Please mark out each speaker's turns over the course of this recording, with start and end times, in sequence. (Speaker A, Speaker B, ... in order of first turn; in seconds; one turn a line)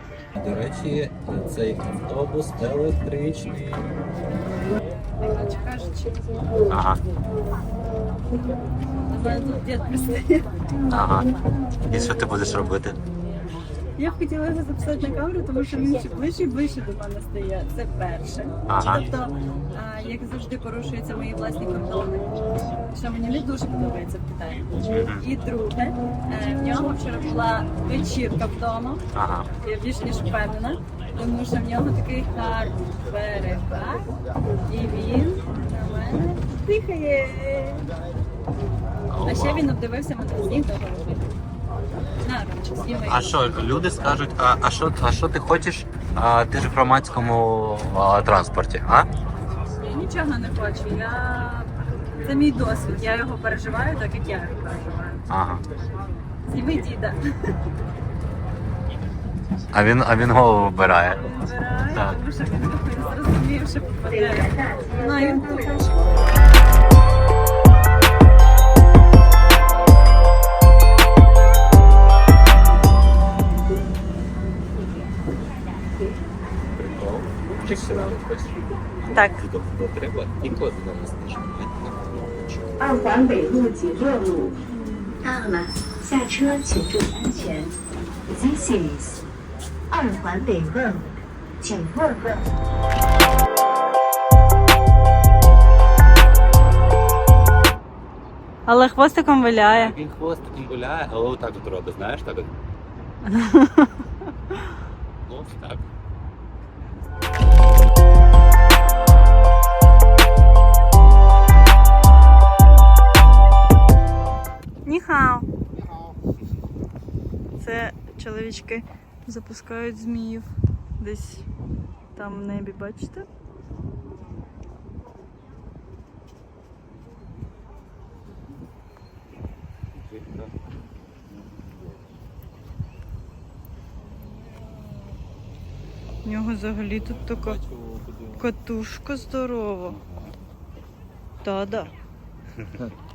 Speaker A: 0.4-4.0
Speaker B: 5.2-6.3
Speaker A: 6.7-7.0
Speaker B: 9.0-11.0
Speaker A: 10.9-13.0
Speaker B: 14.0-29.1
Speaker A: 18.7-19.1
Speaker A: 24.9-25.3
Speaker A: 29.1-29.5
Speaker B: 29.6-34.1
Speaker B: 34.7-37.9
Speaker A: 39.1-39.7
Speaker B: 39.2-41.3
Speaker B: 42.2-43.6
Speaker A: 43.1-49.1
Speaker B: 49.8-55.2
Speaker A: 55.3-55.7
Speaker B: 56.5-57.2
Speaker A: 59.7-61.2
Speaker B: 61.2-65.9
Speaker C: 64.1-66.3
Speaker A: 76.7-82.7
Speaker B: 79.1-79.4
Speaker C: 82.8-84.6
Speaker C: 85.2-87.7
Speaker C: 88.3-89.2
Speaker C: 89.9-92.4
Speaker B: 98.7-100.0
Speaker A: 99.6-102.5
Speaker B: 103.2-104.0
Speaker A: 105.3-105.9
Speaker B: 114.8-115.5
Speaker B: 117.6-121.5
Speaker B: 122.2-123.3
Speaker A: 129.9-130.5
Speaker A: 131.3-132.1
Speaker B: 136.2-137.6
Speaker A: 137.3-138.5
Speaker B: 138.4-140.0
Speaker A: 139.9-140.4
Speaker B: 141.4-141.9